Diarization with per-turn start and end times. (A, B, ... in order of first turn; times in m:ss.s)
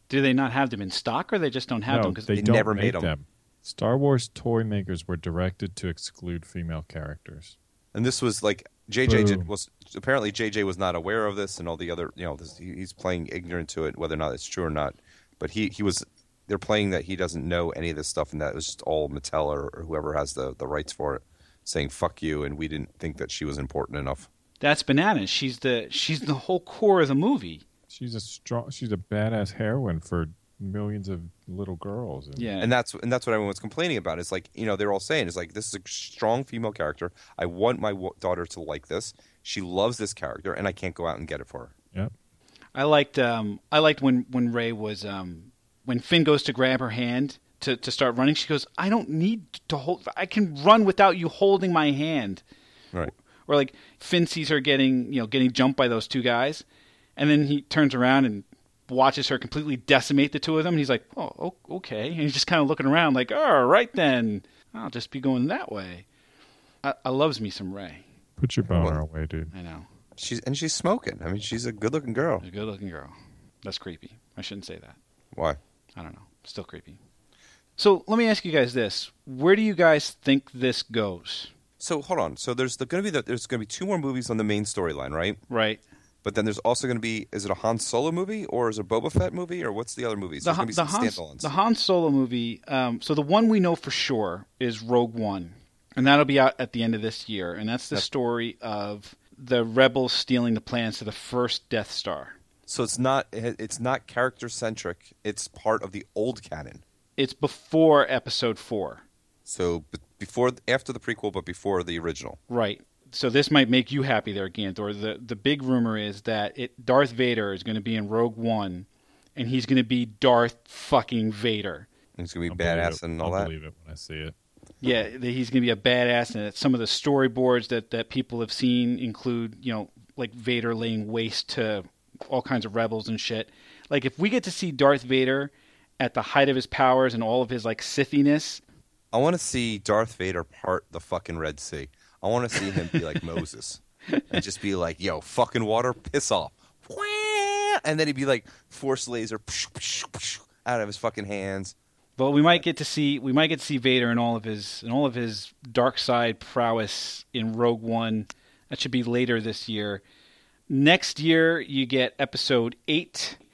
0:00.1-0:02.3 A
0:01.9-0:07.6 B
0:02.3-0:03.1 C
0:07.9-0:24.3 C
0:09.0-0:09.5 B
0:24.6-0:27.6 A
0:27.9-0:32.5 B
0:32.4-0:32.7 A
0:32.6-0:41.7 C
0:42.7-0:52.4 A
0:53.4-0:56.6 A
0:57.2-1:06.0 A
1:06.8-1:08.0 A
1:08.4-1:09.5 B
1:08.7-1:09.0 C
1:09.5-1:09.9 A
1:10.2-1:12.4 C
1:12.4-1:15.0 A
1:15.3-1:15.6 C
1:16.0-1:17.0 A
1:17.8-1:21.5 A
1:21.8-1:25.4 C
1:25.5-1:25.8 A
1:26.2-1:31.5 C
1:30.4-1:42.4 A
1:42.7-1:46.8 C
1:47.2-1:49.0 A
1:49.4-1:52.4 C
1:52.5-2:01.9 A
2:02.2-2:03.5 C
2:02.5-2:04.3 B
2:04.8-2:18.6 A
2:19.1-2:31.7 C
2:32.2-2:40.0 A
2:40.7-2:43.4 A